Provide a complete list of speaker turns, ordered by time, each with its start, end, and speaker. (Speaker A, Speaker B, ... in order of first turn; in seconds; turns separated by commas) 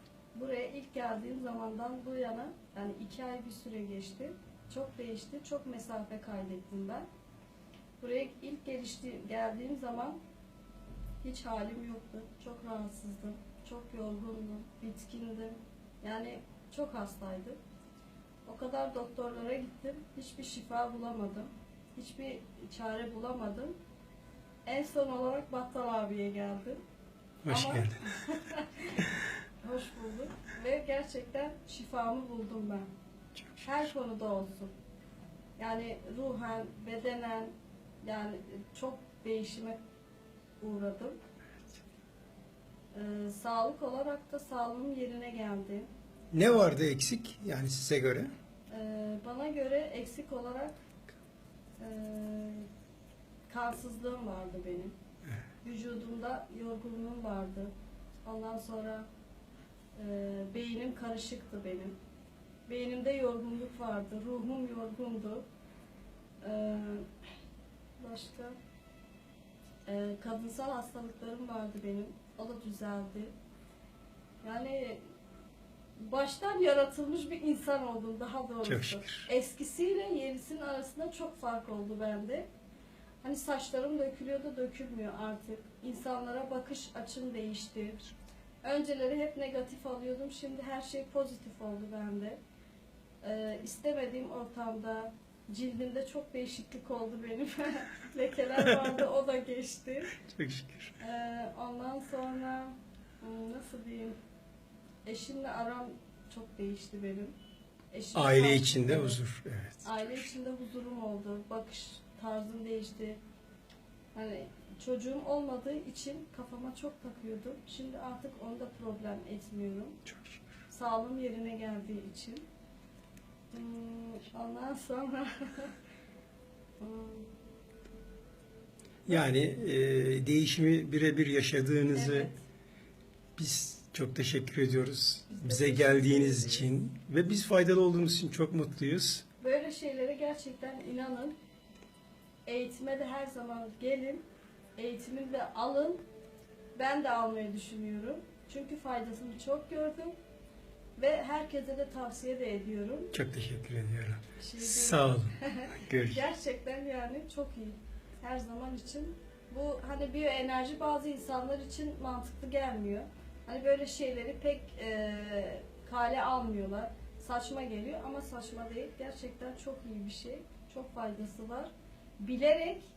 Speaker A: 0.3-7.0, Speaker A: 8.0-10.2, Speaker A: 11.2-17.6, Speaker A: 18.5-23.7, Speaker A: 24.7-26.8, Speaker B: 27.4-28.1, Speaker A: 27.5-29.1, Speaker A: 29.6-32.9, Speaker B: 33.4-33.9, Speaker A: 33.6-34.7, Speaker A: 35.6-37.5, Speaker A: 38.0-39.8, Speaker A: 40.6-41.2, Speaker A: 42.9-45.9, Speaker B: 46.3-48.3, Speaker A: 48.7-50.8, Speaker A: 51.8-52.7, Speaker A: 53.5-55.0, Speaker A: 55.6-57.7, Speaker A: 58.3-59.1, Speaker A: 60.0-61.9, Speaker A: 62.7-65.5, Speaker A: 66.4-67.1, Speaker A: 68.0-68.6, Speaker A: 69.9-73.3, Speaker A: 74.4-75.0, Speaker A: 76.0-82.5, Speaker B: 78.6-79.3, Speaker A: 83.2-88.1, Speaker A: 88.6-92.4, Speaker A: 93.2-100.1, Speaker B: 98.6-98.9, Speaker B: 100.2-101.0, Speaker A: 101.0-104.2, Speaker A: 105.1-107.3, Speaker A: 107.9-109.2, Speaker B: 108.2-110.3, Speaker A: 109.8-113.2, Speaker A: 114.2-120.0, Speaker B: 120.1-120.4, Speaker A: 120.7-122.5, Speaker A: 123.5-125.7, Speaker A: 126.8-127.3, Speaker B: 129.1-132.3, Speaker A: 131.9-132.4, Speaker B: 133.4-139.2, Speaker A: 135.3-136.7, Speaker A: 139.4-141.3, Speaker A: 142.5-144.2, Speaker A: 144.8-146.0, Speaker A: 146.8-150.1, Speaker A: 151.0-153.1, Speaker B: 153.1-156.3, Speaker A: 154.4-172.8